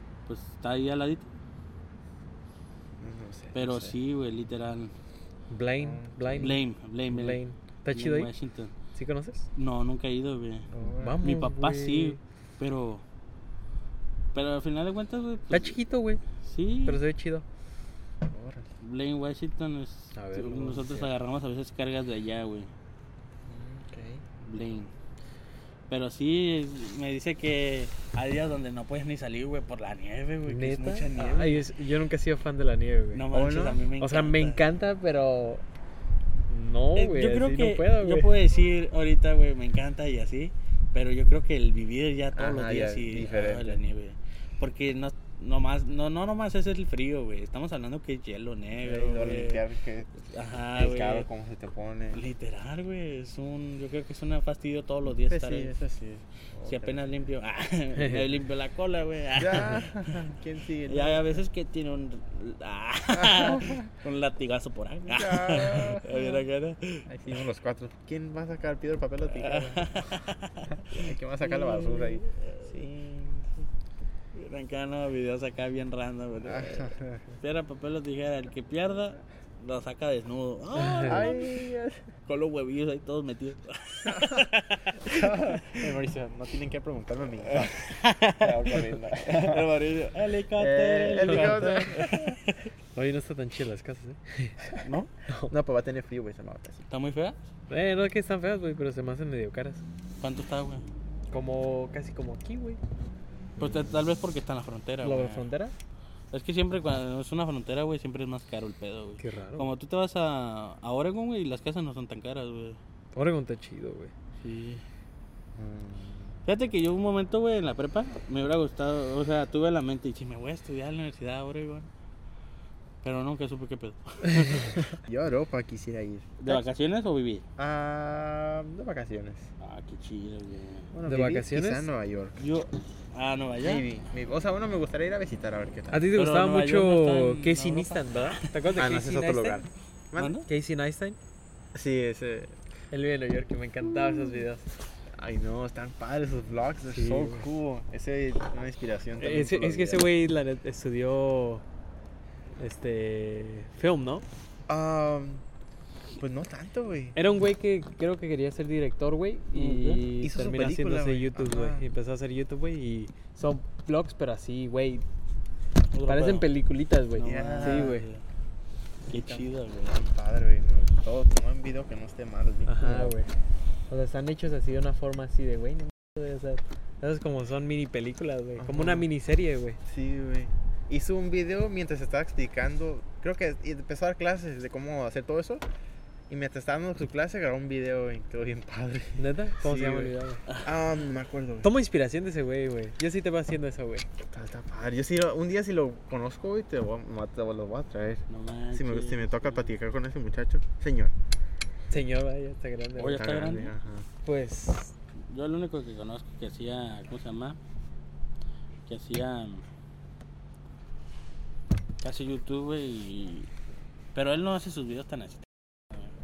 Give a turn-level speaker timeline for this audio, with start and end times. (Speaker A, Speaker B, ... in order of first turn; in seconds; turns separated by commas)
Speaker A: 0.3-1.3, Speaker B: 3.0-4.0, Speaker A: 3.5-4.9, Speaker C: 5.5-8.3, Speaker B: 5.8-6.6, Speaker A: 6.3-7.4, Speaker A: 7.9-8.7, Speaker C: 8.9-9.4, Speaker A: 9.6-10.7, Speaker B: 10.7-11.2, Speaker C: 11.0-12.2, Speaker A: 11.2-13.0, Speaker A: 14.3-15.8, Speaker C: 15.5-16.2, Speaker A: 16.4-17.0, Speaker C: 16.9-17.4, Speaker B: 18.3-18.7, Speaker A: 18.8-22.7, Speaker C: 20.1-21.1, Speaker B: 23.4-24.2, Speaker A: 24.4-24.9, Speaker A: 25.9-31.6, Speaker C: 30.5-33.2, Speaker A: 33.1-34.6, Speaker B: 33.3-33.8, Speaker C: 34.0-35.6, Speaker C: 36.5-38.3, Speaker A: 36.9-49.6, Speaker B: 42.3-43.8, Speaker B: 48.8-52.2, Speaker A: 50.3-51.3, Speaker A: 52.1-55.7, Speaker B: 55.1-57.2, Speaker A: 56.6-60.2, Speaker C: 58.0-58.2, Speaker B: 59.4-61.4, Speaker A: 60.9-67.1, Speaker B: 63.1-63.9, Speaker B: 65.1-66.4, Speaker B: 67.1-70.1, Speaker A: 69.3-72.9, Speaker B: 70.8-73.5, Speaker A: 74.3-81.6, Speaker B: 76.4-77.4, Speaker C: 80.8-81.1, Speaker B: 81.0-82.1, Speaker A: 82.3-85.9, Speaker B: 84.1-84.4, Speaker B: 85.0-89.7, Speaker A: 87.5-92.6, Speaker B: 90.5-92.3, Speaker C: 91.3-91.7, Speaker C: 92.9-94.6, Speaker A: 94.8-95.1, Speaker C: 95.3-95.5, Speaker B: 95.5-96.9, Speaker A: 96.9-97.4, Speaker C: 97.7-99.8, Speaker A: 100.2-100.9, Speaker C: 101.3-102.8, Speaker B: 103.6-103.9, Speaker A: 103.6-105.4, Speaker C: 105.0-105.7, Speaker A: 106.3-112.8, Speaker C: 109.2-109.7, Speaker C: 113.1-114.1, Speaker A: 114.4-114.8, Speaker B: 115.5-116.4, Speaker A: 116.5-121.9, Speaker A: 123.0-124.8, Speaker B: 124.9-126.6, Speaker A: 126.4-127.4, Speaker B: 127.6-129.5, Speaker A: 129.6-130.9, Speaker B: 130.9-132.4, Speaker C: 131.1-131.9, Speaker A: 132.4-133.8, Speaker B: 133.6-136.1, Speaker C: 135.9-139.7, Speaker A: 136.1-138.8, Speaker B: 138.7-140.4, Speaker A: 140.2-140.5, Speaker C: 140.5-141.2, Speaker B: 141.7-142.5, Speaker C: 142.9-144.6, Speaker B: 145.2-150.1, Speaker C: 146.9-147.5, Speaker C: 149.2-151.6, Speaker C: 152.6-154.2, Speaker B: 154.7-155.4, Speaker B: 156.2-157.2, Speaker C: 157.2-165.0, Speaker A: 159.5-160.1, Speaker B: 160.2-161.8, Speaker A: 165.9-166.5, Speaker C: 166.1-168.1, Speaker A: 167.1-168.2, Speaker B: 167.2-168.0, Speaker A: 169.1-170.0, Speaker B: 169.1-173.1, Speaker C: 172.7-173.3, Speaker C: 173.9-179.8, Speaker B: 178.6-179.1, Speaker B: 179.9-185.6, Speaker B: 186.3-191.7, Speaker C: 189.2-190.4, Speaker A: 190.5-190.7, Speaker C: 191.6-194.1, Speaker B: 194.3-201.1, Speaker A: 198.3-199.7, Speaker C: 201.9-203.3, Speaker A: 203.0-203.7, Speaker B: 203.0-204.1, Speaker C: 204.2-204.9, Speaker A: 205.3-207.6, Speaker A: 208.9-209.6, Speaker A: 212.0-213.5, Speaker A: 214.1-216.1